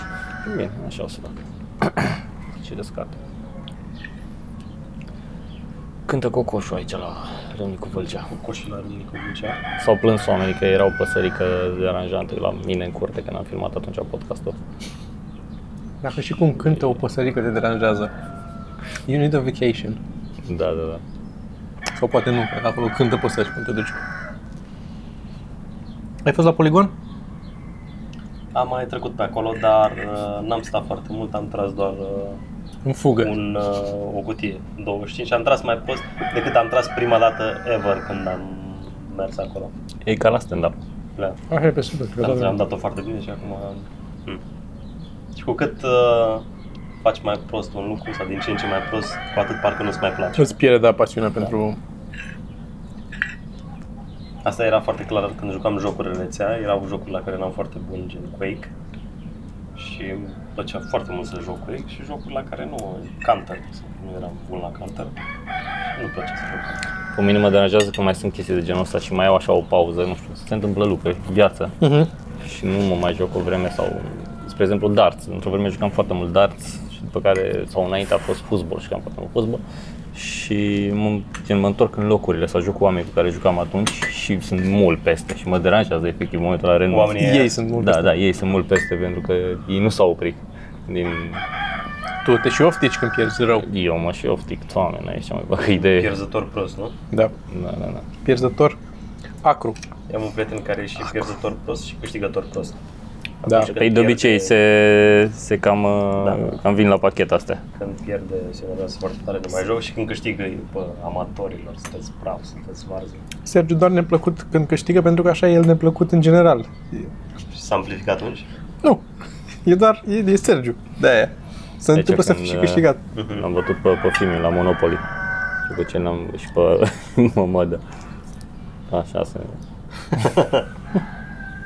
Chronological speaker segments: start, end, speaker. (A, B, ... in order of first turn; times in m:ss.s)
0:00.4-0:03.2 A
0:06.0-0:08.3 A
0:08.2-0:09.6 B
0:09.8-0:14.6 A
0:16.0-0:18.1 C
0:19.1-0:20.0 C
0:20.4-0:21.0 A
0:22.0-0:24.0 C
0:26.2-0:26.9 C
0:28.5-0:32.4 B
0:32.8-0:33.3 C
0:33.2-0:39.7 B
0:40.0-0:40.8 A
0:41.5-0:42.6 C
0:42.2-0:44.4 B
0:45.3-0:46.4 B
0:47.0-0:50.5 B
0:50.4-0:51.8 C
0:54.4-0:58.7 B
0:59.8-1:05.1 B
1:05.9-1:06.8 B
1:07.1-1:11.8 A
1:11.8-1:12.1 C
1:12.4-1:19.6 A
1:20.1-1:31.4 A
1:26.9-1:27.6 B
1:27.2-1:28.1 C
1:32.2-1:33.6 C
1:33.6-1:36.1 A
1:36.0-1:36.9 B
1:37.5-1:38.1 A
1:38.2-1:38.8 C
1:39.4-1:39.8 C
1:40.1-1:42.8 B
1:43.4-1:44.5 B
1:43.6-1:47.6 A
1:47.8-1:53.2 B
1:53.4-1:57.1 C
1:57.5-1:58.4 B
1:59.6-2:03.0 C
2:01.9-2:05.0 A
2:03.1-2:03.4 B
2:05.7-2:07.8 A
2:08.9-2:09.6 A
2:10.2-2:10.6 B